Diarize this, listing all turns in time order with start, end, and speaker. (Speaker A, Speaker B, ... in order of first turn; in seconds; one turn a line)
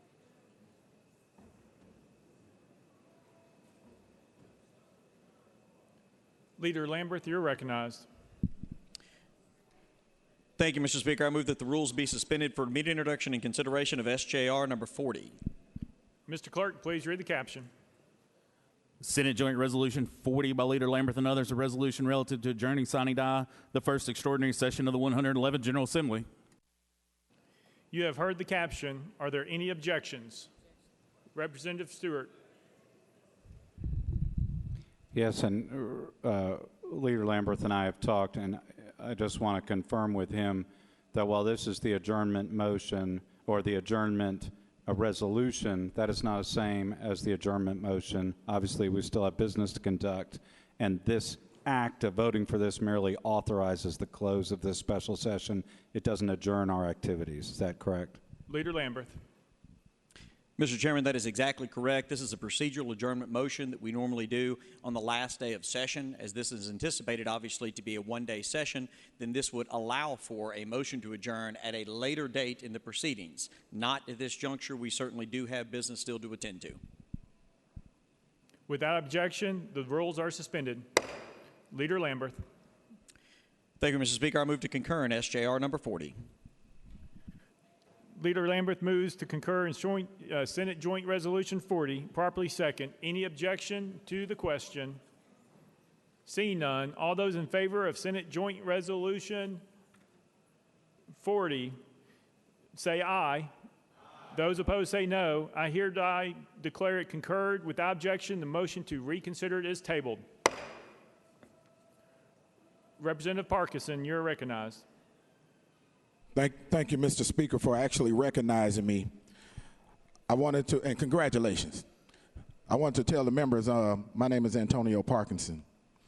Speaker A: 6.6-8.1
Speaker B: 10.6-15.3
Speaker A: 16.3-17.7
Speaker C: 19.0-26.3
Speaker A: 27.9-30.5
Speaker A: 31.3-32.3
Speaker D: 35.1-58.2
Speaker A: 58.5-59.2
Speaker B: 60.6-76.8
Speaker A: 78.7-80.8
Speaker A: 81.7-82.4
Speaker B: 83.8-86.2
Speaker A: 88.2-95.0
Speaker A: 96.3-99.6
Speaker A: 101.2-101.8
Speaker A: 102.7-103.5
Speaker A: 104.3-110.2
Speaker A: 113.0-114.8
Speaker E: 116.3-119.1
Speaker E: 120.3-121.8
Speaker E: 122.7-125.6